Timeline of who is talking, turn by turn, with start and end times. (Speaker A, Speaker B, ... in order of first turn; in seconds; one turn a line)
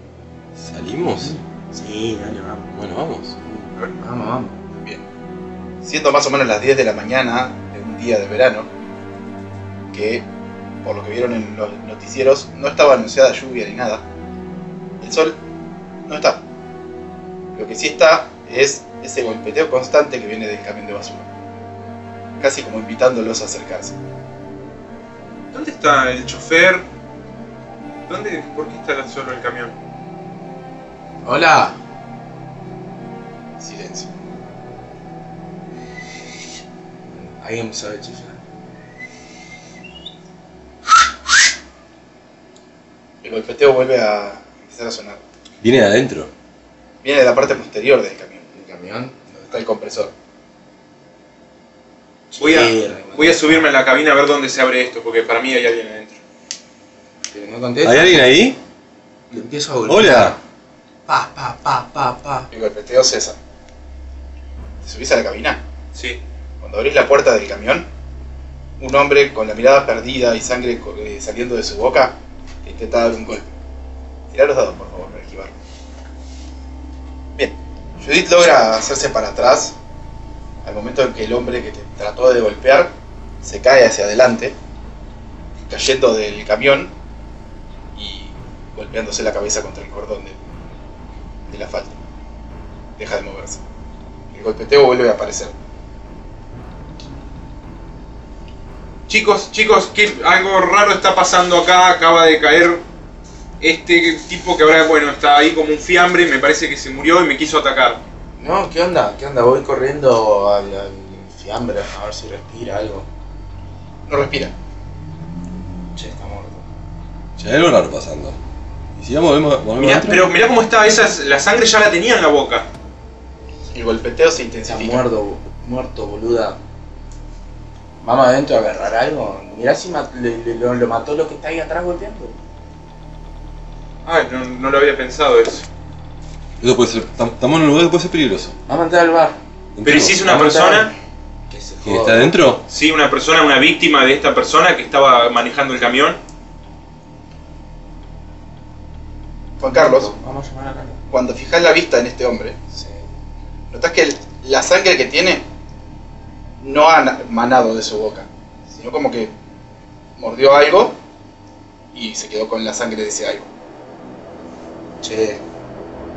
Speaker A: 0.6-1.4
Speaker B: 1.2-2.7
Speaker A: 2.7-3.4
Speaker B: 3.5-4.6
Speaker C: 4.8-5.0
Speaker C: 5.8-8.7
Speaker C: 9.9-10.2
Speaker C: 10.8-14.1
Speaker C: 15.0-15.4
Speaker C: 16.1-16.4
Speaker C: 17.6-21.3
Speaker C: 22.4-24.0
Speaker D: 25.5-26.8
Speaker D: 28.1-29.7
Speaker B: 31.2-31.8
Speaker C: 33.6-34.1
Speaker B: 37.1-38.4
Speaker C: 43.2-45.2
Speaker A: 45.6-46.3
Speaker C: 47.0-48.5
Speaker B: 48.5-49.5
Speaker C: 49.5-50.1
Speaker B: 52.3-53.6
Speaker D: 52.4-56.2
Speaker B: 57.3-58.3
Speaker A: 57.8-58.6
Speaker B: 59.3-60.4
Speaker A: 59.9-60.4
Speaker B: 61.1-62.5
Speaker C: 62.5-63.4
Speaker C: 64.8-65.6
Speaker D: 65.9-66.2
Speaker C: 66.6-67.9
Speaker C: 68.8-73.5
Speaker C: 74.3-75.5
Speaker C: 77.4-79.8
Speaker C: 80.6-84.5
Speaker C: 85.7-86.9
Speaker C: 88.0-90.4
Speaker C: 91.5-92.0
Speaker C: 93.0-93.6
Speaker C: 94.3-95.5
Speaker D: 99.1-102.8
Speaker D: 103.6-108.0
Speaker B: 108.4-113.1
Speaker C: 114.1-114.5
Speaker B: 116.0-116.6
Speaker A: 117.4-118.4
Speaker A: 119.0-120.3
Speaker D: 119.8-122.7
Speaker C: 123.7-125.1
Speaker B: 124.7-126.6
Speaker B: 128.0-132.4
Speaker D: 134.1-135.7
Speaker A: 136.6-138.6
Speaker B: 138.7-139.4
Speaker A: 139.8-140.3
Speaker D: 139.8-140.9
Speaker B: 140.2-140.9
Speaker B: 141.5-142.4
Speaker A: 141.8-142.6
Speaker D: 142.7-146.2
Speaker C: 149.6-150.1
Speaker B: 149.7-151.0
Speaker C: 151.1-152.6
Speaker B: 152.7-153.1
Speaker C: 153.7-155.4
Speaker C: 156.6-159.3
Speaker C: 160.2-161.0
Speaker C: 161.9-163.5
Speaker B: 165.0-165.4